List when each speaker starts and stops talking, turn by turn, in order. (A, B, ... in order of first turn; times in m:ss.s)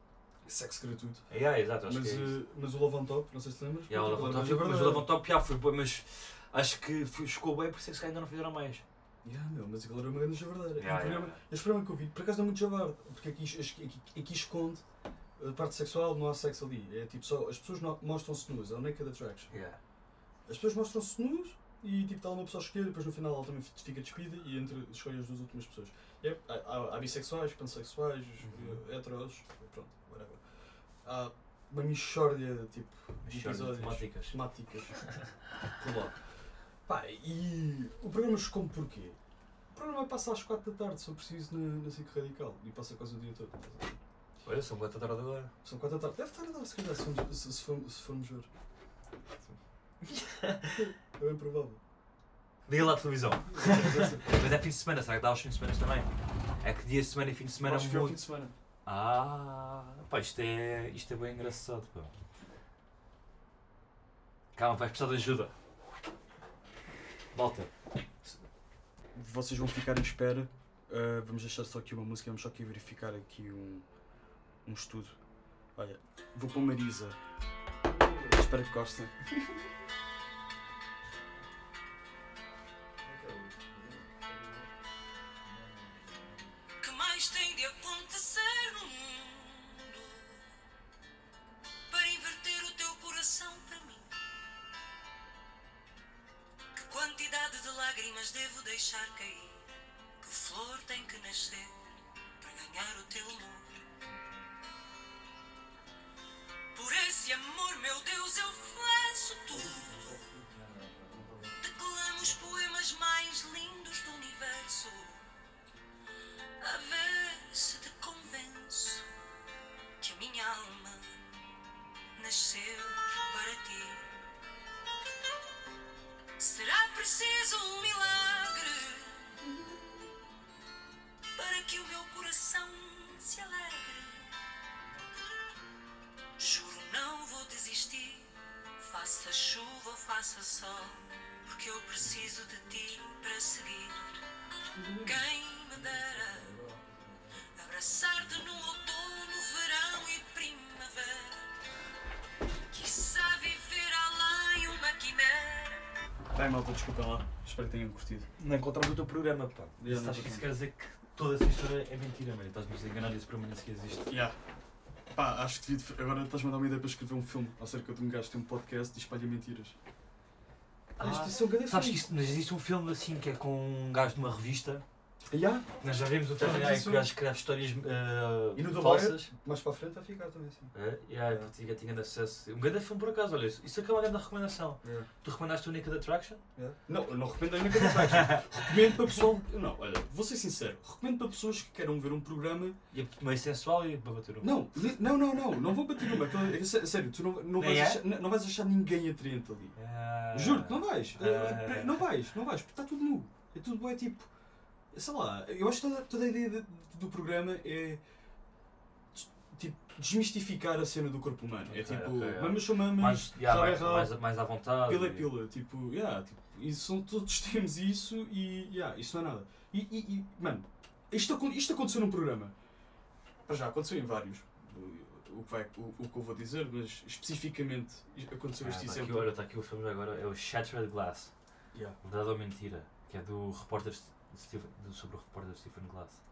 0:00.4-0:01.3 A
0:01.3-0:02.4 B
0:01.8-0:05.1 A
0:03.9-0:08.8 B
0:09.2-0:14.8 A
0:10.8-0:11.4 B
0:15.4-0:19.5 A
0:19.5-0:19.8 B
0:20.5-0:30.4 A
0:28.4-0:28.8 B
0:31.0-0:35.0 A
0:33.2-0:34.4 B
0:35.7-0:36.1 A
0:36.9-0:39.2 A
0:39.7-0:44.0 A
0:44.4-0:45.5 B
0:45.6-0:48.5 A
0:50.0-0:50.9 B
0:50.8-0:51.8 A
0:52.7-0:58.2 B
0:53.5-0:54.4 A
0:57.6-0:58.5 A
0:58.9-1:02.1 B
1:04.5-1:05.5 B
1:07.3-1:07.7 B
1:09.1-1:13.8 A
1:14.6-1:15.2 A
1:15.8-1:17.2 A
1:17.8-1:19.5 A
1:23.1-1:24.6 A
1:26.8-1:30.4 C
1:31.9-1:34.1 C
1:36.8-1:39.7 C
1:40.2-1:41.8 C
1:42.4-1:43.8 C
1:46.7-1:50.2 C
1:51.6-1:55.2 C
1:56.6-1:59.1 C
2:00.0-2:01.2 C
2:02.2-2:04.1 C
2:06.4-2:09.3 C
2:11.3-2:14.3 C
2:16.4-2:24.2 C
2:24.7-2:25.2 A
2:25.0-2:26.6 C
2:26.5-2:27.0 A
2:27.5-2:31.5 C
2:32.7-2:35.8 C
2:36.3-2:38.3 A
2:38.4-2:44.2 B
2:39.8-2:40.5 A
2:44.1-2:44.4 A
2:45.1-2:49.8 A
2:51.0-2:54.8 B
2:51.0-2:52.0 A
2:55.3-2:55.7 A
2:55.8-2:59.3 B
2:56.3-2:57.1 A
2:58.5-3:00.7 A
3:00.7-3:06.4 B
3:04.8-3:05.1 A
3:06.6-3:12.8 A
3:07.7-3:08.6 B
3:12.9-3:14.6 B
3:14.4-3:19.8 A
3:17.6-3:18.0 B
3:19.8-3:22.1 B
3:20.3-3:24.3 A
3:24.9-3:28.0 A
3:29.1-3:34.2 A
3:31.7-3:35.3 B
3:34.8-3:42.5 A
3:43.5-3:49.3 A
3:48.6-3:51.3 B
3:52.0-3:56.2 B